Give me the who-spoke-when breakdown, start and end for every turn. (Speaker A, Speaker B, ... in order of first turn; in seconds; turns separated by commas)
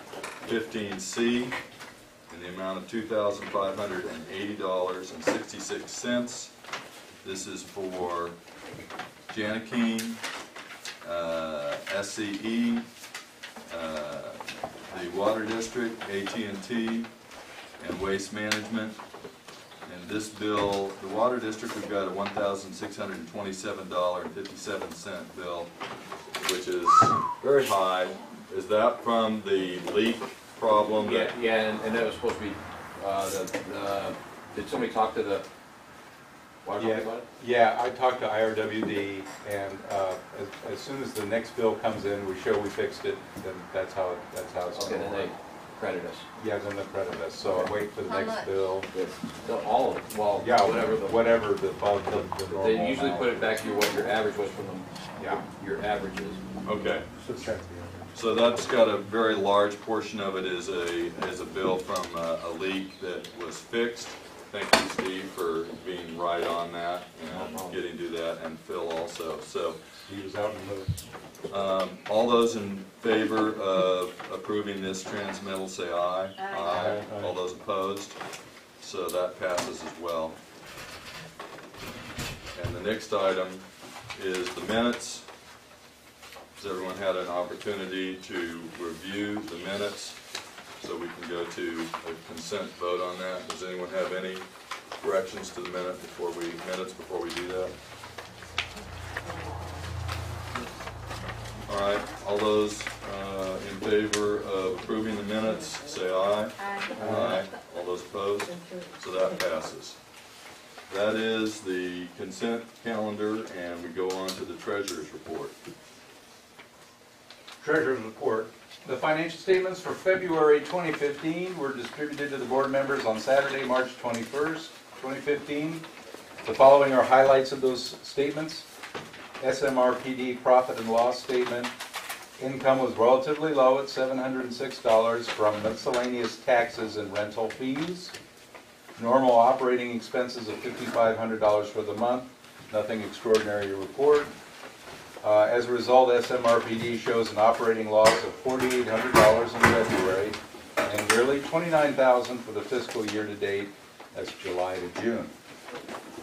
Speaker A: 0.4-1.6, Speaker A: 2.3-6.5, Speaker A: 7.2-8.4, Speaker A: 9.3-10.2, Speaker A: 11.0-12.9, Speaker A: 13.7-17.1, Speaker A: 17.8-19.0, Speaker A: 19.9-25.7, Speaker A: 26.4-31.4, Speaker B: 30.8-35.5, Speaker B: 36.6-37.3, Speaker C: 36.8-45.3, Speaker B: 44.7-46.2, Speaker C: 46.4-48.9, Speaker B: 47.5-47.7, Speaker B: 48.9-51.3, Speaker C: 50.4-53.6, Speaker B: 52.1-56.4, Speaker C: 55.2-55.4, Speaker A: 56.7-57.1, Speaker C: 57.3-57.9, Speaker A: 58.1-69.8, Speaker B: 67.3-67.8, Speaker C: 70.1-70.9, Speaker A: 71.5-78.2, Speaker C: 76.7-77.0, Speaker A: 78.8-80.4, Speaker A: 82.5-85.2, Speaker A: 86.6-90.2, Speaker A: 90.8-94.5, Speaker A: 95.0-97.7, Speaker A: 101.7-110.0, Speaker A: 110.9-115.5, Speaker C: 117.6-125.8, Speaker C: 126.4-128.7, Speaker C: 129.4-131.7, Speaker C: 132.4-138.1, Speaker C: 139.0-144.3, Speaker C: 145.2-155.3